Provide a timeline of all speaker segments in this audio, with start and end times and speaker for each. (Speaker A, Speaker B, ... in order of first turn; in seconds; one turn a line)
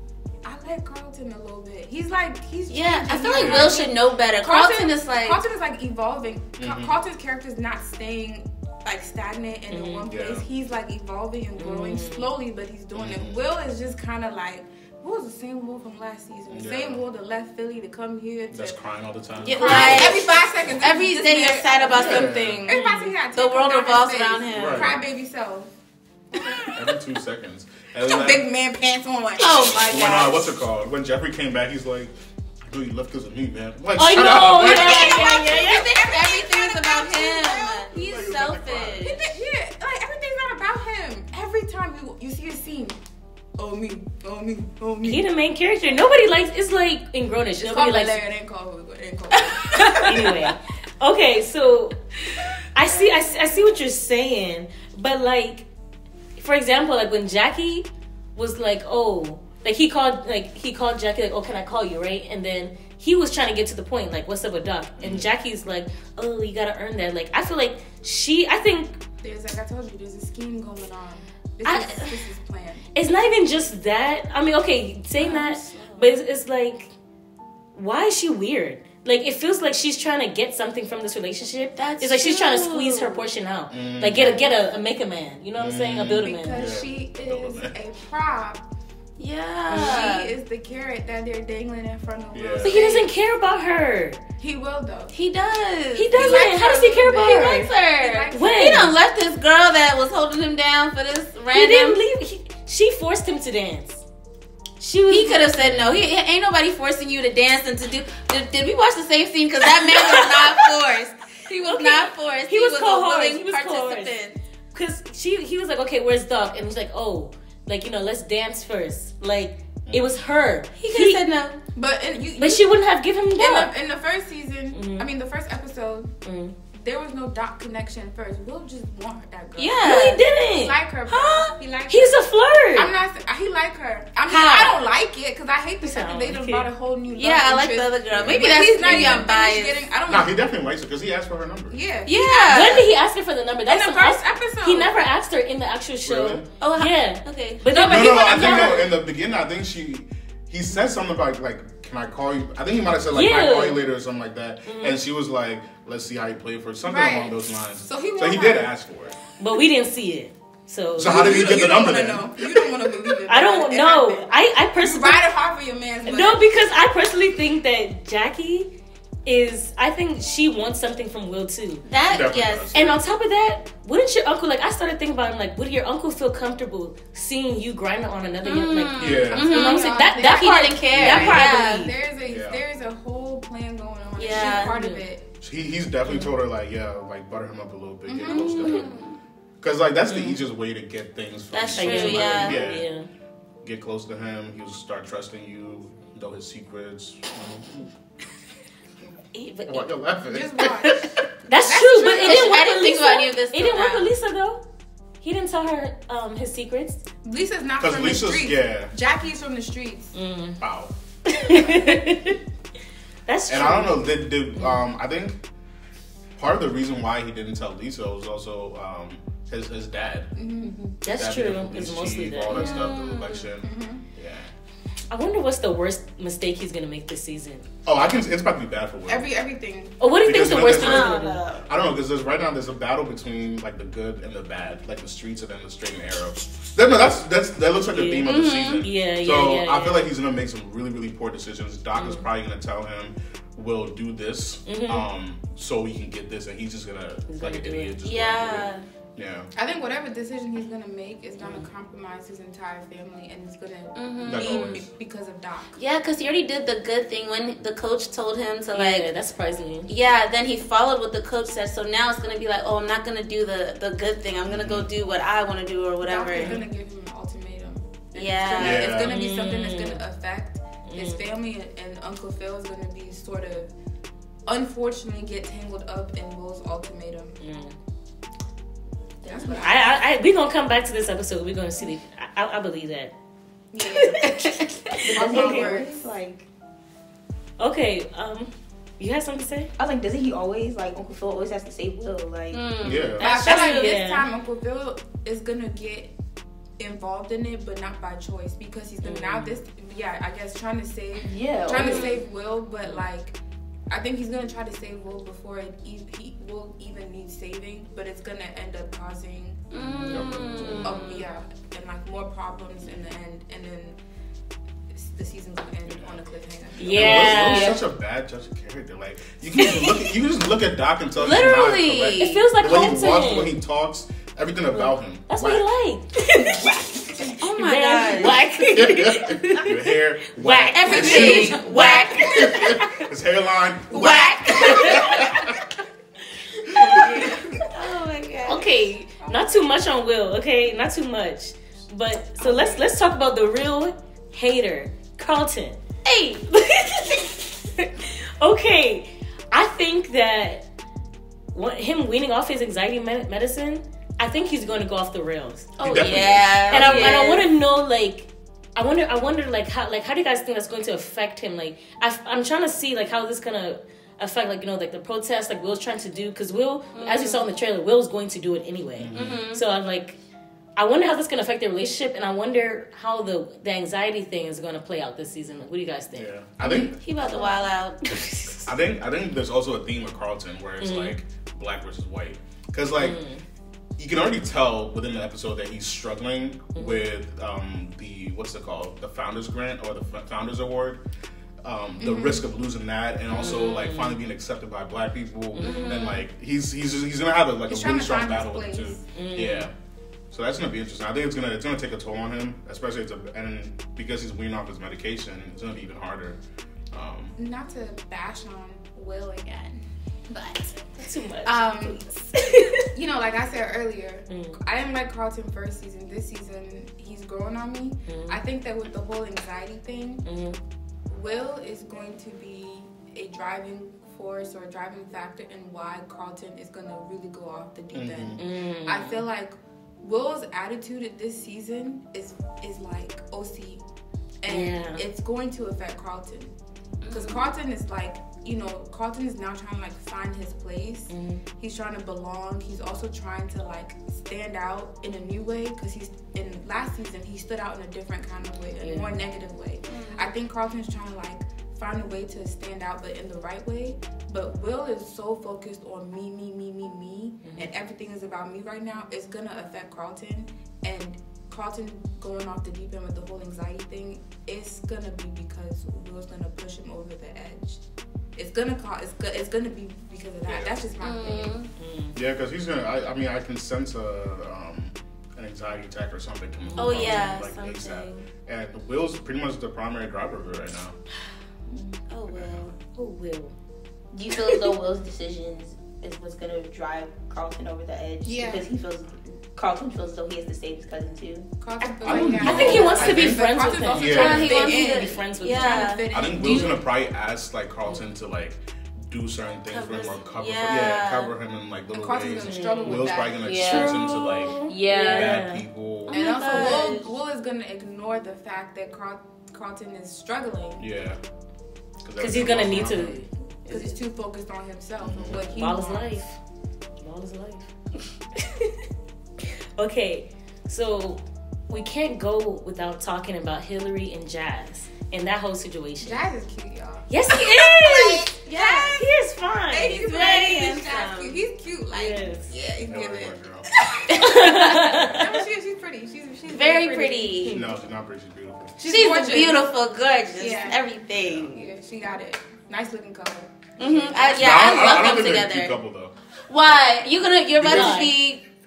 Speaker A: 0.4-18.8
Speaker B: 2.7-5.4
Speaker C: 3.3-3.8
Speaker C: 6.6-7.0
Speaker D: 9.7-10.1
Speaker C: 10.1-10.4
Speaker D: 11.6-12.3
Speaker C: 12.9-13.4
Speaker C: 16.5-17.0
Speaker C: 18.5-20.2
Speaker B: 19.4-24.9
Speaker A: 19.5-25.7
Speaker C: 21.9-22.6
Speaker D: 22.7-23.1
Speaker C: 24.5-25.0
Speaker A: 26.3-26.8
Speaker C: 26.8-28.5
Speaker A: 28.0-29.8
Speaker B: 29.4-30.5
Speaker C: 29.7-35.2
Speaker D: 34.0-35.9
Speaker B: 34.4-39.2
Speaker A: 34.9-38.1
Speaker C: 37.9-39.2
Speaker A: 39.0-43.0
Speaker A: 43.6-45.2
Speaker D: 45.0-48.2
Speaker A: 47.6-50.5
Speaker D: 50.0-52.0
Speaker D: 52.8-55.7
Speaker A: 52.9-53.5
Speaker D: 56.4-69.0
Speaker C: 65.0-65.3
Speaker A: 69.2-72.9
Speaker D: 71.6-72.0
Speaker D: 73.0-76.9
Speaker A: 75.2-76.0
Speaker D: 77.7-86.7
Speaker B: 81.8-83.2
Speaker C: 83.7-84.4
Speaker C: 85.6-87.7
Speaker A: 86.1-88.7
Speaker B: 89.2-90.3
Speaker A: 89.7-93.1
Speaker C: 92.3-92.9
Speaker D: 92.6-94.2
Speaker A: 94.4-95.2
Speaker B: 95.1-102.0
Speaker D: 96.0-97.7
Speaker A: 96.1-98.8
Speaker D: 98.3-98.9
Speaker D: 101.5-104.0
Speaker D: 104.8-105.5
Speaker B: 105.1-114.4
Speaker C: 105.6-106.0
Speaker D: 109.8-110.7
Speaker D: 111.6-114.1
Speaker D: 114.7-121.2
Speaker C: 119.9-120.2
Speaker B: 120.8-121.6
Speaker A: 121.8-122.8
Speaker D: 122.4-123.7
Speaker A: 123.3-126.1
Speaker D: 124.7-125.1
Speaker D: 126.2-126.6
Speaker A: 126.7-132.2
Speaker B: 129.6-130.2
Speaker D: 129.8-130.8
Speaker B: 131.1-131.5
Speaker D: 131.9-132.9
Speaker A: 132.7-140.4
Speaker B: 134.3-134.8
Speaker D: 135.8-136.7
Speaker B: 137.2-139.9
Speaker C: 138.1-138.5
Speaker D: 138.8-139.2
Speaker C: 140.1-141.8
Speaker A: 141.7-142.9
Speaker B: 142.1-142.8
Speaker D: 142.5-148.8
Speaker A: 143.7-145.0
Speaker C: 146.1-146.5
Speaker B: 146.6-148.6
Speaker A: 147.7-148.9
Speaker C: 147.8-159.2
Speaker D: 153.1-153.8
Speaker D: 154.7-155.0
Speaker A: 156.8-158.7
Speaker D: 159.4-161.5
Speaker C: 161.0-162.6
Speaker A: 161.0-166.5
Speaker D: 163.3-165.2
Speaker D: 166.1-168.7
Speaker D: 169.2-171.8
Speaker B: 171.9-172.8
Speaker C: 172.1-173.0
Speaker D: 172.7-181.9
Speaker B: 178.4-181.9
Speaker C: 179.0-179.5
Speaker A: 179.3-185.2
Speaker C: 182.2-182.6
Speaker B: 184.2-184.8
Speaker D: 184.3-185.1
Speaker C: 185.4-188.9
Speaker D: 186.1-186.3
Speaker A: 188.1-188.9
Speaker B: 188.3-189.2
Speaker C: 189.6-192.9
Speaker D: 190.1-190.4
Speaker B: 191.5-192.6
Speaker D: 191.8-193.1
Speaker C: 193.6-197.9
Speaker D: 199.3-199.9
Speaker C: 199.7-200.9
Speaker A: 200.3-202.7
Speaker D: 201.5-204.6
Speaker B: 202.0-204.1
Speaker D: 205.2-207.0
Speaker A: 207.2-210.1
Speaker C: 207.8-208.9
Speaker D: 210.1-210.6
Speaker C: 210.6-210.9
Speaker D: 211.3-212.4
Speaker D: 213.3-214.8
Speaker C: 213.5-215.4
Speaker C: 216.4-220.3
Speaker A: 220.3-220.9
Speaker D: 221.0-222.9
Speaker C: 221.1-224.5
Speaker B: 222.5-223.5
Speaker A: 223.6-224.0
Speaker D: 225.1-227.7
Speaker C: 227.9-229.3
Speaker A: 229.1-230.0
Speaker D: 230.0-231.4
Speaker C: 230.2-249.5
Speaker B: 230.6-231.7
Speaker D: 237.9-240.1
Speaker B: 238.2-238.8
Speaker D: 242.0-242.2
Speaker D: 244.7-245.1
Speaker D: 247.3-247.9
Speaker B: 248.0-248.8
Speaker A: 249.5-255.7
Speaker D: 251.4-251.7
Speaker B: 253.9-254.8
Speaker C: 254.3-254.9
Speaker B: 255.8-259.1
Speaker D: 258.7-259.9
Speaker B: 259.9-266.6
Speaker C: 264.5-264.9
Speaker A: 266.0-273.7
Speaker D: 266.4-266.6
Speaker B: 268.1-268.9
Speaker C: 268.6-269.2
Speaker D: 268.9-270.0
Speaker D: 270.9-271.2
Speaker A: 274.5-277.4
Speaker D: 277.4-277.8
Speaker E: 279.2-279.6
Speaker A: 279.2-280.0
Speaker D: 279.5-283.1
Speaker A: 283.7-286.1
Speaker D: 283.8-284.6
Speaker E: 285.0-286.5
Speaker D: 285.1-285.7
Speaker D: 287.6-289.7
Speaker E: 289.8-293.0
Speaker B: 292.5-293.9
Speaker C: 292.8-293.2
Speaker A: 293.2-296.1
Speaker D: 293.2-294.3
Speaker A: 296.8-303.4
Speaker D: 299.0-299.6
Speaker E: 301.2-302.2
Speaker B: 301.7-302.1
Speaker A: 303.9-309.6
Speaker B: 309.7-311.3
Speaker D: 310.1-311.1
Speaker C: 310.1-310.9
Speaker A: 310.8-314.0
Speaker A: 314.9-317.8
Speaker C: 315.9-316.2
Speaker D: 316.8-317.8
Speaker C: 316.9-325.6
Speaker B: 321.2-322.5
Speaker D: 322.2-323.6
Speaker D: 324.7-326.8
Speaker B: 327.4-328.4
Speaker D: 327.4-329.8
Speaker C: 328.7-335.6
Speaker D: 330.3-331.7
Speaker B: 330.7-332.8
Speaker A: 330.9-332.9
Speaker A: 333.9-335.3
Speaker B: 333.9-335.3
Speaker C: 336.7-337.4
Speaker B: 336.8-338.8
Speaker A: 336.9-337.4
Speaker D: 338.5-345.8
Speaker A: 339.2-339.5
Speaker A: 342.4-342.8
Speaker B: 346.1-346.5
Speaker D: 346.5-350.7
Speaker D: 351.5-370.2
Speaker B: 355.8-357.5
Speaker C: 355.8-357.2
Speaker B: 366.9-367.5
Speaker C: 369.0-369.4
Speaker B: 369.1-369.6
Speaker D: 370.8-376.3
Speaker C: 376.1-377.0
Speaker A: 376.6-377.6
Speaker B: 376.6-378.1
Speaker D: 378.0-378.7
Speaker C: 378.7-383.2
Speaker D: 380.8-381.1
Speaker D: 383.0-383.4
Speaker C: 384.0-391.0
Speaker D: 386.8-387.1
Speaker C: 391.6-399.7
Speaker A: 392.1-392.4
Speaker B: 393.3-393.7
Speaker D: 393.4-394.2
Speaker D: 395.5-396.1
Speaker B: 395.6-396.2
Speaker A: 397.7-399.1
Speaker D: 399.1-399.7
Speaker C: 400.3-406.4
Speaker C: 406.9-407.4
Speaker A: 407.4-410.7
Speaker D: 411.0-412.9
Speaker A: 411.4-420.2
Speaker D: 414.3-414.6
Speaker D: 418.1-418.4
Speaker D: 420.2-420.6
Speaker A: 421.1-433.8
Speaker C: 427.9-428.4
Speaker D: 428.4-429.3
Speaker A: 434.4-436.5
Speaker D: 434.5-435.0
Speaker B: 437.0-437.5
Speaker A: 437.1-467.8
Speaker D: 441.1-441.4
Speaker D: 448.8-449.2
Speaker B: 449.9-450.3
Speaker D: 457.4-457.7
Speaker A: 468.4-471.6
Speaker C: 470.5-470.8
Speaker B: 471.0-471.7
Speaker D: 471.8-472.2
Speaker C: 472.1-481.0
Speaker D: 476.6-477.4
Speaker B: 476.8-478.2
Speaker B: 482.1-482.7
Speaker C: 482.3-482.7
Speaker D: 482.9-483.5
Speaker E: 484.1-491.5
Speaker D: 484.3-484.7
Speaker A: 488.2-488.7
Speaker A: 491.6-496.8
Speaker D: 491.8-496.0
Speaker C: 492.0-494.7
Speaker B: 493.8-496.8
Speaker C: 496.1-506.2
Speaker B: 499.7-501.3
Speaker A: 501.9-503.5
Speaker D: 502.4-503.1
Speaker E: 503.5-504.0
Speaker B: 503.5-503.9
Speaker D: 503.6-505.6
Speaker E: 504.6-505.4
Speaker B: 506.1-507.1
Speaker A: 506.1-510.9
Speaker D: 506.5-506.9
Speaker C: 510.8-511.2
Speaker C: 512.0-513.2
Speaker D: 512.2-514.0
Speaker A: 513.7-516.2
Speaker C: 515.0-515.5
Speaker D: 515.3-516.4
Speaker D: 517.0-517.7
Speaker D: 518.4-518.9
Speaker D: 519.4-526.3
Speaker A: 526.0-529.0
Speaker D: 527.1-528.3
Speaker B: 528.4-529.0
Speaker D: 528.9-530.3
Speaker A: 529.7-537.5
Speaker B: 529.8-531.4
Speaker D: 531.9-532.5
Speaker C: 532.8-533.7
Speaker D: 534.1-535.4
Speaker C: 534.8-535.2
Speaker B: 536.5-537.6
Speaker C: 537.5-538.8
Speaker A: 538.8-539.7
Speaker B: 538.9-541.6
Speaker A: 540.4-540.8
Speaker C: 541.2-541.6
Speaker A: 541.5-545.2
Speaker B: 543.8-545.7
Speaker C: 544.4-546.1
Speaker B: 546.5-548.4
Speaker C: 547.6-548.1
Speaker D: 547.6-548.1